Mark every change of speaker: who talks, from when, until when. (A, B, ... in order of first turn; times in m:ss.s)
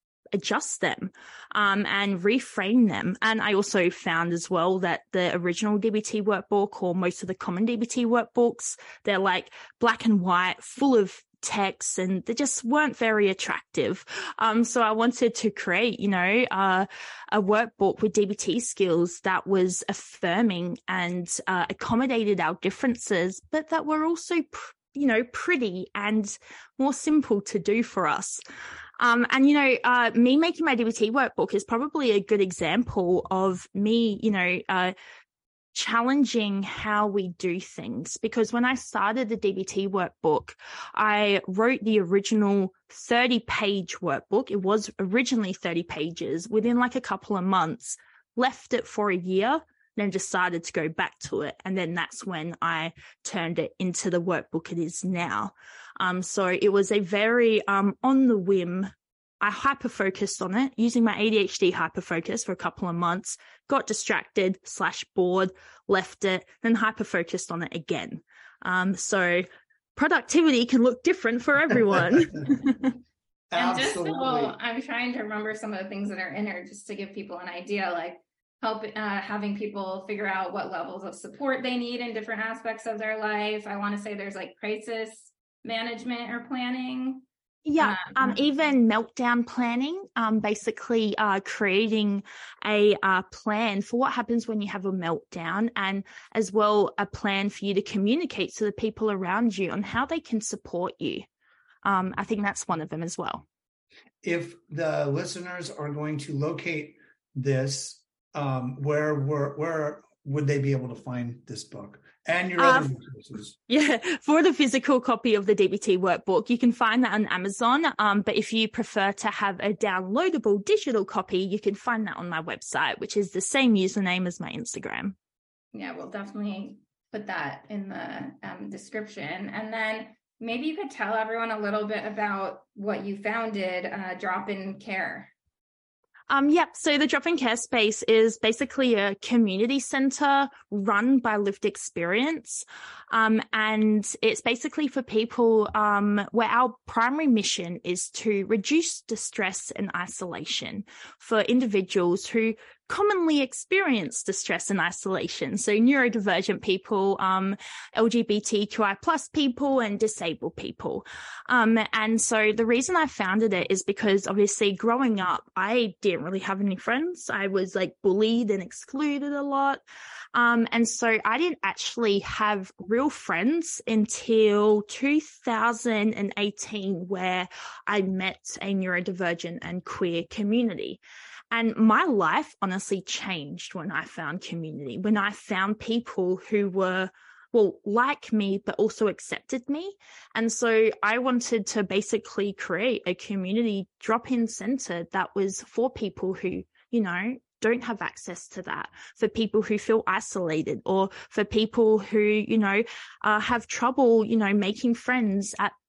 0:00.3-0:28.4 A
0:29.0-0:35.0 A
0:35.7-1:12.9 A
1:13.5-1:14.6 B
1:13.6-1:27.2 C
1:27.7-1:41.3 A
1:27.8-1:28.4 C
1:41.8-1:43.4 A
1:44.2-1:53.6 B
1:52.6-1:52.9 A
1:53.7-2:05.2 A
2:05.7-2:15.3 C
2:16.3-2:49.8 A
2:50.3-3:01.0 A
3:01.5-3:25.7 A